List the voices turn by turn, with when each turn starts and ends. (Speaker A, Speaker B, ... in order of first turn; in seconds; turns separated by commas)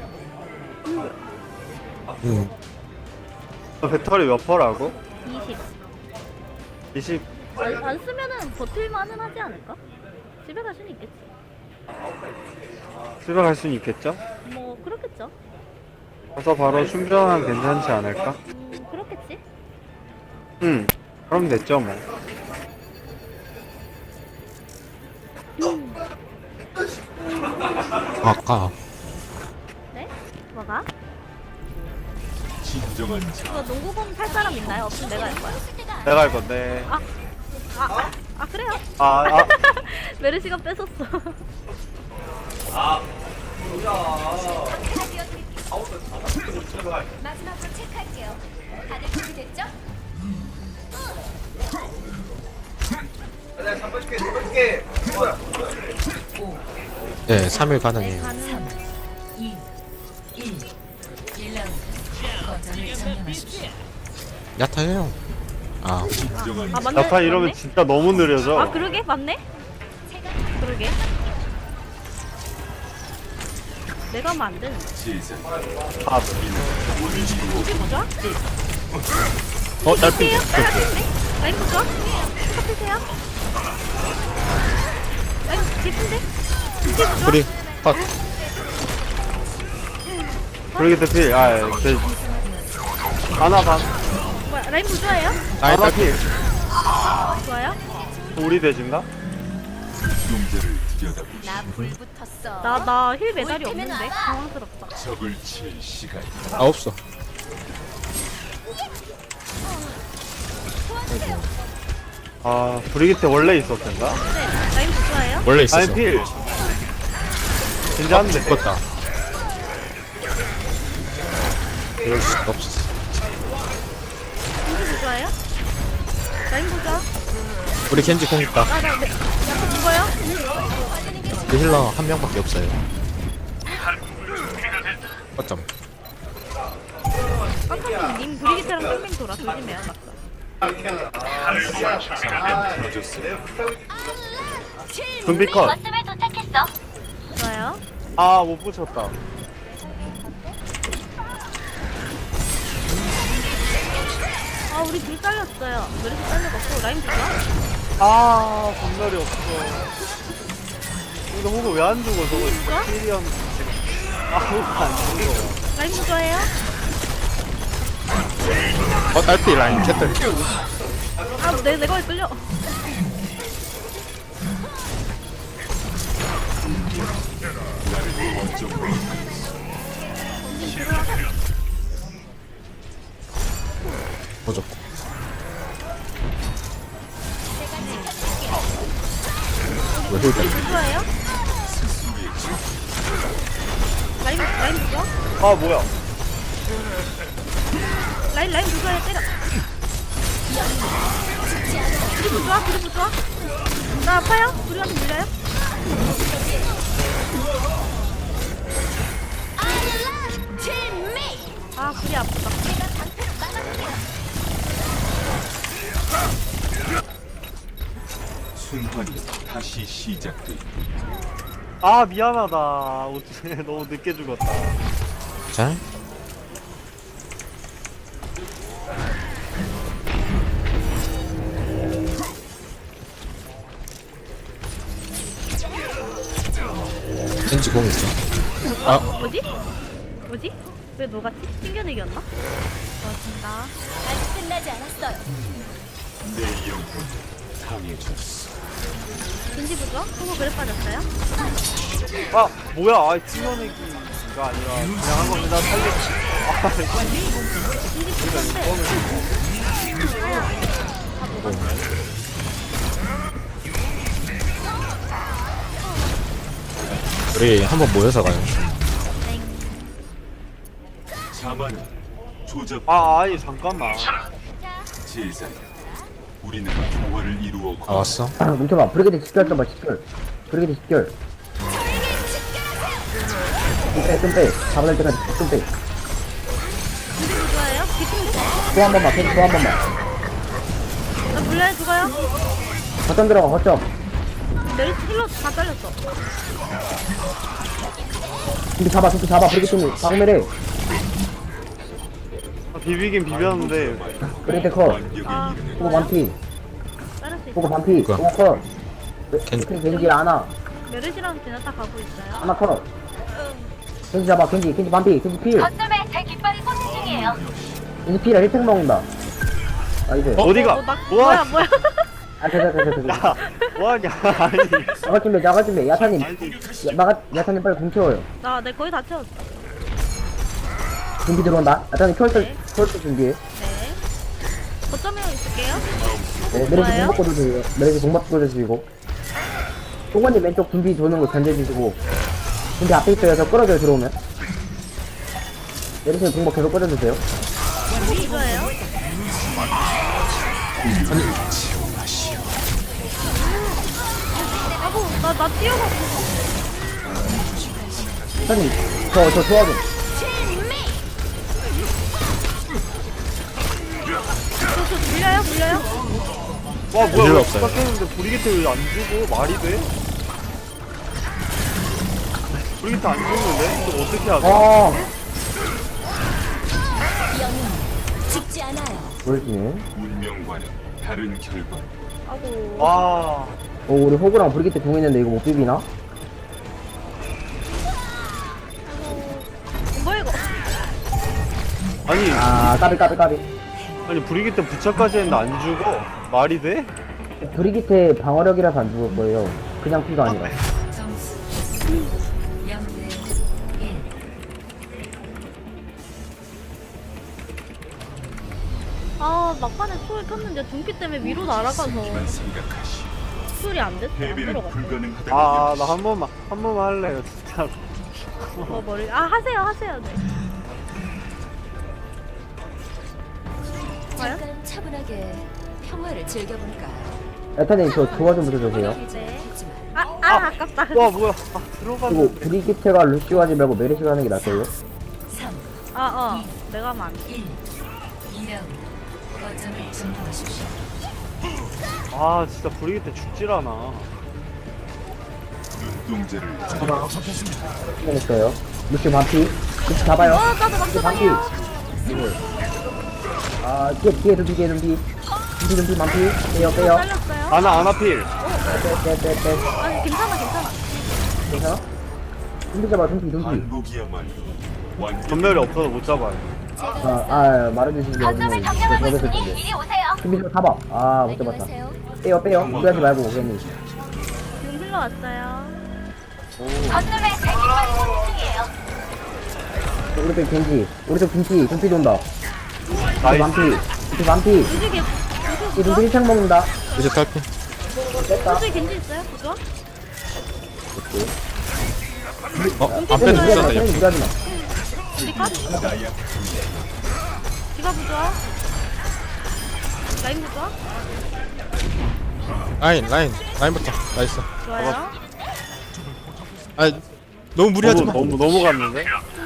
Speaker A: 0.8-1.1, Speaker B: 2.2-2.5, Speaker C: 3.8-5.0, Speaker A: 5.2-5.6, Speaker C: 6.9-7.3, Speaker A: 7.6-9.8, Speaker A: 10.4-11.2, Speaker C: 13.2-14.2, Speaker A: 14.4-15.3, Speaker C: 16.4-18.4, Speaker A: 18.5-19.4, Speaker C: 20.6-22.0, Speaker A: 25.6-26.0, Speaker B: 28.2-28.7, Speaker A: 29.9-30.9, Speaker D: 32.6-33.7, Speaker A: 33.4-35.6, Speaker E: 35.7-36.0, Speaker C: 36.0-36.9, Speaker A: 37.7-41.4, Speaker C: 39.0-39.5, Speaker E: 44.4-45.4, Speaker E: 47.2-48.4, Speaker E: 48.9-49.7, Speaker B: 57.3-58.3, Speaker A: 58.0-58.7, Speaker E: 62.1-63.6, Speaker B: 64.6-65.2, Speaker B: 65.8-66.2, Speaker D: 66.1-67.2, Speaker A: 66.3-67.6, Speaker C: 66.9-68.8, Speaker A: 68.5-69.4, Speaker A: 70.6-71.0, Speaker A: 74.1-74.9, Speaker D: 74.9-75.6, Speaker C: 76.0-76.5, Speaker D: 76.4-78.0, Speaker A: 77.0-78.1, Speaker B: 79.8-80.8, Speaker A: 79.8-83.0, Speaker A: 85.5-86.2, Speaker A: 86.8-87.4, Speaker B: 87.2-88.0, Speaker A: 90.7-91.1, Speaker C: 90.7-92.1, Speaker C: 93.4-93.9, Speaker A: 94.4-95.4, Speaker B: 95.6-96.2, Speaker C: 95.6-96.2, Speaker A: 97.2-97.8, Speaker C: 98.3-99.1, Speaker D: 100.2-101.7, Speaker B: 101.6-102.0, Speaker E: 102.0-102.6, Speaker A: 102.6-105.0, Speaker D: 104.9-106.5, Speaker B: 106.5-107.0, Speaker B: 111.1-111.5, Speaker C: 112.4-114.2, Speaker A: 114.2-115.5, Speaker B: 115.4-116.0, Speaker C: 115.7-116.3, Speaker C: 117.9-118.6, Speaker B: 118.1-118.8, Speaker B: 122.0-122.9, Speaker A: 124.6-125.3, Speaker A: 126.5-127.1, Speaker B: 127.9-128.7, Speaker A: 128.7-130.1, Speaker B: 131.5-132.8, Speaker B: 135.4-135.7, Speaker A: 137.7-140.2, Speaker D: 141.4-143.4, Speaker C: 145.2-145.8, Speaker A: 147.3-147.8, Speaker C: 148.2-149.1, Speaker A: 154.7-157.3, Speaker C: 158.0-159.9, Speaker C: 161.3-163.8, Speaker A: 162.3-162.9, Speaker C: 164.3-165.6, Speaker A: 165.7-166.5, Speaker B: 169.1-170.2, Speaker A: 171.4-172.4, Speaker D: 177.8-179.6, Speaker A: 180.4-181.1, Speaker B: 184.4-184.8, Speaker A: 187.8-188.1, Speaker A: 189.9-191.1, Speaker B: 190.1-190.6, Speaker D: 191.4-192.7, Speaker A: 194.2-195.1, Speaker C: 195.4-195.9, Speaker A: 198.3-199.3, Speaker E: 200.7-200.9, Speaker E: 201.7-202.1, Speaker A: 202.2-203.2, Speaker A: 204.0-205.3, Speaker E: 206.3-206.7, Speaker E: 210.8-211.5, Speaker A: 211.7-212.7, Speaker E: 212.9-213.7, Speaker D: 218.5-220.8, Speaker C: 221.8-224.8, Speaker B: 225.5-225.8, Speaker B: 237.5-238.2, Speaker A: 238.9-239.4, Speaker A: 240.2-242.2, Speaker A: 243.0-243.7, Speaker E: 244.1-245.2, Speaker D: 245.3-248.5, Speaker A: 249.5-251.1, Speaker C: 252.3-257.3, Speaker A: 257.9-258.8, Speaker C: 258.2-259.3, Speaker A: 259.9-261.8, Speaker B: 261.4-261.7, Speaker A: 265.8-266.1, Speaker B: 267.3-268.8, Speaker A: 269.2-269.9, Speaker D: 271.3-271.9, Speaker D: 272.4-273.5, Speaker C: 272.9-274.1, Speaker D: 275.0-275.8, Speaker D: 276.4-278.1, Speaker B: 277.9-278.3, Speaker F: 278.4-281.1, Speaker F: 283.9-285.7, Speaker A: 287.2-288.8, Speaker F: 288.7-289.8, Speaker A: 291.3-292.1, Speaker F: 293.1-293.9, Speaker A: 294.6-296.0, Speaker F: 298.8-300.5, Speaker C: 302.7-304.0, Speaker D: 303.2-306.1, Speaker F: 304.4-305.0, Speaker A: 304.4-306.1, Speaker F: 305.8-306.4, Speaker A: 307.2-308.0, Speaker F: 307.5-308.6, Speaker F: 309.3-310.5, Speaker B: 309.5-309.7, Speaker A: 309.9-310.1, Speaker A: 310.9-312.5, Speaker F: 312.4-312.9, Speaker F: 314.1-315.7, Speaker D: 316.8-317.9, Speaker F: 318.1-319.1, Speaker F: 320.1-320.4, Speaker C: 320.4-321.6, Speaker A: 320.5-322.1, Speaker F: 322.4-323.4, Speaker C: 323.1-324.9, Speaker A: 323.4-323.7, Speaker F: 325.0-328.3, Speaker C: 326.2-326.6, Speaker A: 328.4-329.3, Speaker F: 331.2-333.4, Speaker A: 332.3-332.6, Speaker A: 333.5-334.0, Speaker A: 334.9-335.8, Speaker D: 335.7-337.0, Speaker F: 336.5-338.9, Speaker A: 336.6-337.2, Speaker F: 340.1-342.0, Speaker F: 342.8-344.1, Speaker F: 346.0-347.2, Speaker A: 347.9-348.8, Speaker D: 350.8-352.6, Speaker B: 351.1-351.3, Speaker A: 353.3-353.8, Speaker A: 354.8-356.3, Speaker D: 358.1-358.4, Speaker F: 358.4-359.8, Speaker A: 364.7-365.9, Speaker C: 366.9-369.9, Speaker B: 367.1-367.8, Speaker C: 372.8-374.7, Speaker F: 374.4-375.1, Speaker E: 377.5-377.8, Speaker E: 378.3-379.2, Speaker F: 379.2-379.9, Speaker D: 379.9-381.9, Speaker A: 382.2-383.0, Speaker C: 382.8-383.5, Speaker F: 383.9-385.9, Speaker A: 388.8-390.5, Speaker C: 392.1-392.5, Speaker F: 392.3-393.5, Speaker C: 394.1-396.9, Speaker F: 397.4-400.6, Speaker A: 401.9-402.1, Speaker A: 409.2-412.4, Speaker D: 411.2-413.5, Speaker A: 413.6-415.0, Speaker D: 414.1-416.0, Speaker C: 415.3-418.8, Speaker A: 418.7-420.2, Speaker A: 424.2-424.4, Speaker E: 424.4-427.1, Speaker F: 427.6-429.0, Speaker A: 428.8-431.1, Speaker C: 430.3-432.5, Speaker F: 432.1-434.7, Speaker A: 435.9-437.4, Speaker E: 439.7-440.5, Speaker C: 442.1-444.1, Speaker D: 445.7-447.1, Speaker F: 446.8-447.1, Speaker F: 448.0-451.4, Speaker A: 450.2-451.5, Speaker F: 452.0-452.4, Speaker F: 453.6-455.1, Speaker F: 455.6-457.1, Speaker A: 456.6-457.7, Speaker C: 457.5-458.3, Speaker A: 458.4-458.8, Speaker F: 458.6-459.7, Speaker A: 459.7-461.2, Speaker F: 461.5-461.8, Speaker F: 462.7-463.6, Speaker D: 463.4-466.3, Speaker C: 465.2-466.5, Speaker F: 467.0-469.6, Speaker F: 470.2-471.7, Speaker E: 471.4-472.0, Speaker F: 472.2-473.6, Speaker D: 472.6-474.2, Speaker A: 474.6-475.8, Speaker C: 476.6-477.2, Speaker F: 476.8-477.1, Speaker F: 480.1-482.2, Speaker C: 483.2-483.6, Speaker F: 483.2-484.7, Speaker A: 484.6-486.1, Speaker F: 485.7-486.7, Speaker A: 486.9-487.3, Speaker B: 486.9-487.4, Speaker F: 488.2-488.6, Speaker A: 488.3-489.6, Speaker F: 490.9-491.3, Speaker B: 492.8-494.1, Speaker A: 492.9-493.8, Speaker F: 492.9-494.3, Speaker A: 494.5-495.7, Speaker D: 495.1-497.0, Speaker F: 495.6-496.0, Speaker A: 497.7-498.4, Speaker A: 500.2-500.7, Speaker B: 502.8-504.5, Speaker A: 504.6-505.1, Speaker C: 504.7-505.0, Speaker B: 506.8-507.0, Speaker B: 507.5-508.4, Speaker C: 507.8-509.1, Speaker F: 507.9-508.2